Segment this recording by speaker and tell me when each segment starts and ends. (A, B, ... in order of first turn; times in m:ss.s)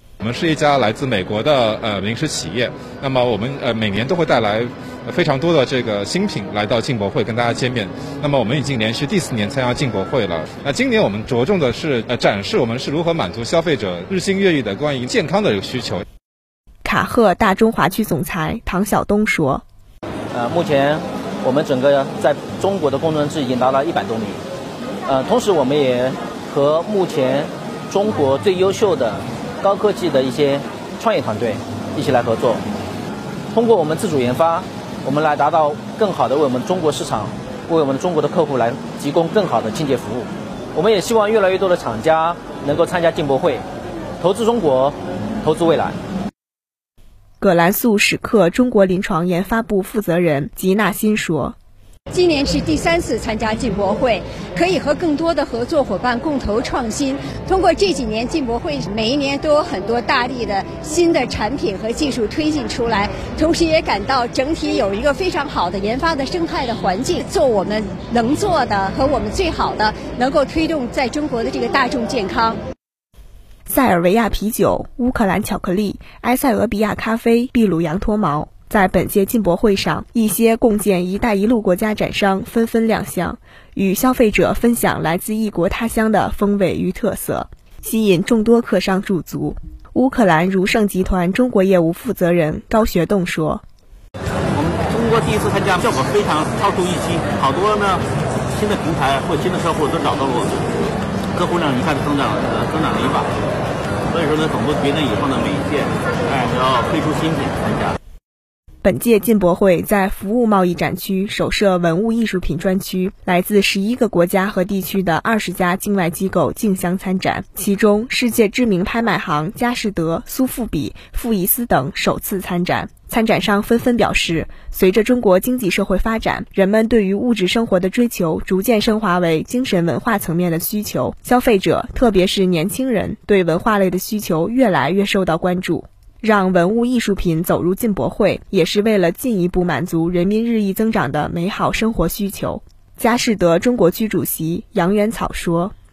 0:00.2-0:16.0 A
0:16.8-0:19.6 B
0:20.3-0:24.4 C
0:25.1-0:32.6 C
0:33.5-0:43.6 C
0:44.2-0:46.0 C
0:47.4-0:51.6 B
0:52.1-1:12.6 D
1:13.7-1:33.6 B
1:34.5-1:43.4 E
1:44.1-1:48.0 E
1:48.8-2:25.7 B